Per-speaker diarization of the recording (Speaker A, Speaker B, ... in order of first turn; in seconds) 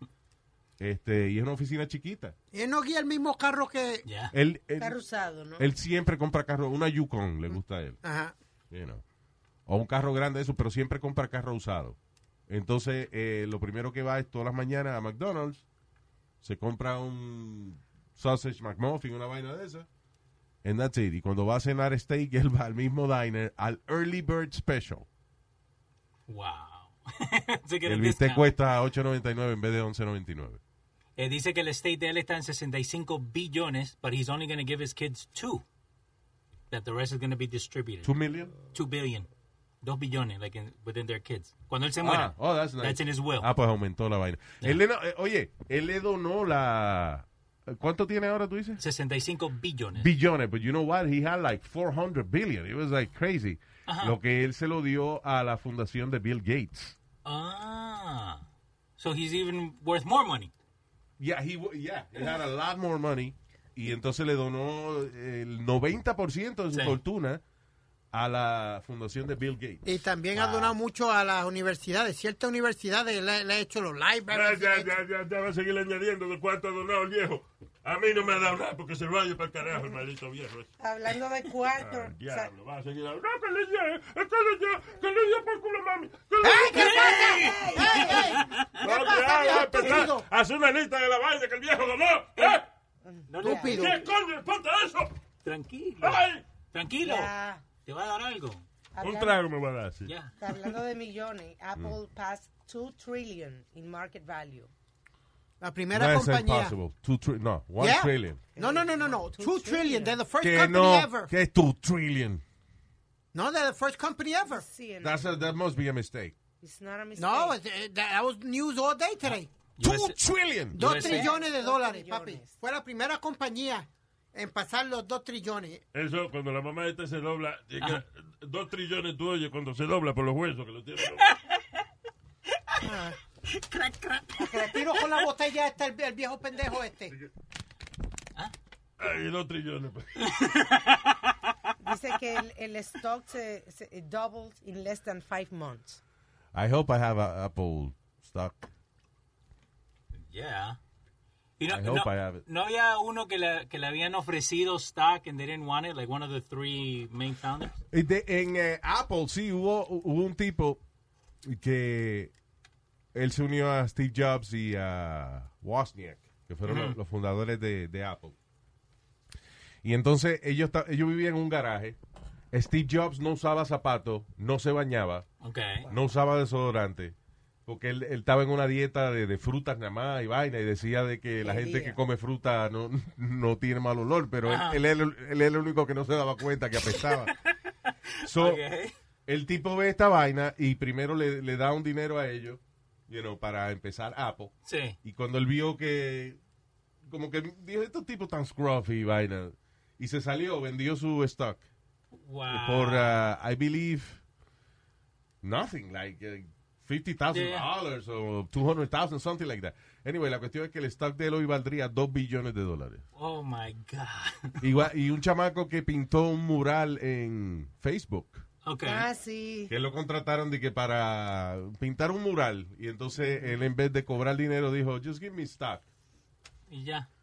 Speaker A: 0.8-2.3, 4.3-5.0, 5.6-8.0, 8.7-9.0, 9.7-12.0, 12.5-15.6, 16.4-19.9, 20.6-25.1, 27.8-30.6, 38.0-38.5, 42.0-48.8, 49.9-57.0, 61.2-67.4, 68.1-69.8, 105.9-108.4, 110.4-112.4, 115.0-116.3, 119.8-120.8, 146.5-148.7, 151.7-152.4, 157.9-160.8, 161.4-162.3, 163.1-168.4, 169.8-172.0, 172.5-175.2, 175.8-177.1, 177.7-187.3, 188.2-188.6, 189.3-194.5, 195.0-196.4, 197.1-201.6, 202.5-204.2, 205.4-213.0, 214.6-218.4, 219.7-225.8
Speaker B: 2.5-4.0, 8.0-8.3, 69.8-75.0, 86.4-90.2, 93.4-94.1, 105.6-106.7, 107.8-111.3, 113.3-114.6, 117.2-119.5, 120.7-125.8, 132.8-133.2, 134.4-137.1
Speaker C: 4.0-4.3, 26.3-28.5, 31.2-35.6, 36.7-38.1, 38.7-39.3, 39.8-43.5, 48.8-50.1, 53.9-54.1, 57.2-58.4, 59.0-60.5, 66.7-67.0, 70.3-70.8, 86.7-88.7, 93.3-93.9, 95.4-97.3, 97.8-98.6, 100.0-100.3, 119.8-120.2, 120.7-121.3, 133.5-135.1, 140.2-141.3, 150.3-150.8, 151.6-157.8, 166.7-167.0, 175.4-175.9, 184.4-184.8, 188.2-188.9, 194.7-194.9, 202.2-203.2, 207.3-207.7, 213.2-214.6, 218.6-219.1, 226.7-227.1
Speaker D: 4.8-5.7, 80.8-82.5, 86.6-88.3, 93.0-93.8, 97.0-97.6, 98.9-99.4, 100.4-104.7, 108.5-110.2, 114.4-115.5, 116.6-117.5, 120.8-122.5, 141.8-146.0, 181.4-182.0, 218.8-219.7
Speaker E: 74.3-80.7, 81.8-87.7, 88.8-92.6, 93.7-95.2, 96.0-96.4, 99.0-100.1, 125.9-131.3, 139.0-140.2